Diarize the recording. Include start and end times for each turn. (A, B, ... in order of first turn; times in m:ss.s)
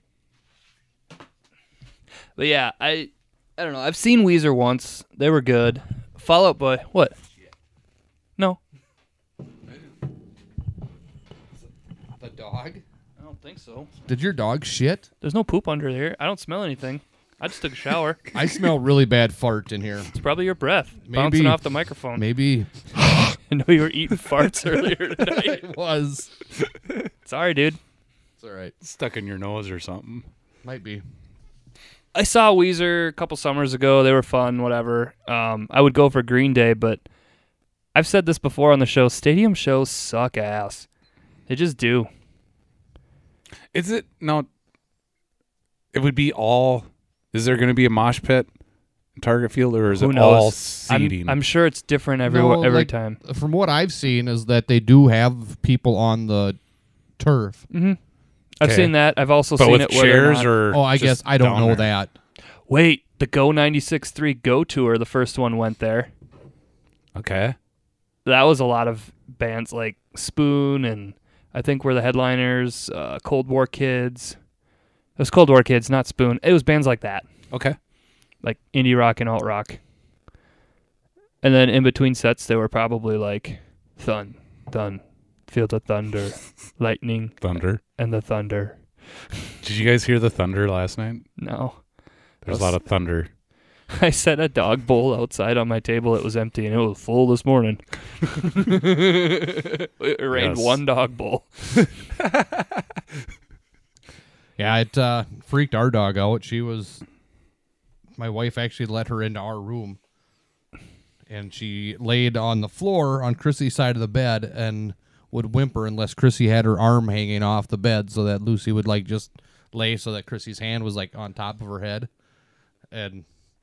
0:02.4-0:07.2 A
0:12.2-0:12.8 B
0:13.2-0:13.9 A
0:14.1-0:15.1 B
0:15.2-0:18.2 A
0:18.3-0:20.1 B
0:20.1-0:22.2 A
0:21.0-0:21.6 B
0:22.1-0:23.3 B
0:23.5-0:25.6 A
0:25.2-0:26.3 B
0:27.2-0:27.8 A
0:28.4-0:28.7 B
0:28.8-0:30.2 C
0:30.6-0:31.0 B
0:32.1-0:37.0 A
0:37.9-0:40.9 A
0:41.5-0:42.1 A
0:43.7-0:44.5 C
0:45.9-0:48.5 C
0:49.2-0:51.4 C
0:50.0-0:53.2 A
0:52.2-0:56.6 B
0:57.2-0:57.6 B
0:57.7-0:58.0 A
0:58.6-1:00.5 A
0:58.6-0:58.9 C
0:59.6-1:01.9 C
1:00.7-1:02.1 B
1:02.7-1:06.1 A
1:07.1-1:07.6 C
1:08.2-1:14.4 A
1:15.2-1:17.2 A
1:17.5-1:17.8 C
1:18.4-1:19.8 A
1:21.4-1:27.4 A
1:27.4-1:27.8 C
1:28.0-1:28.8 A
1:29.6-1:31.2 C
1:31.4-1:31.8 A
1:32.4-1:33.3 C
1:32.4-1:32.8 A
1:33.9-1:41.5 A
1:40.3-1:40.8 C
1:44.6-1:47.0 B
1:48.2-1:50.0 B
1:51.3-2:02.1 B
2:02.9-2:03.2 B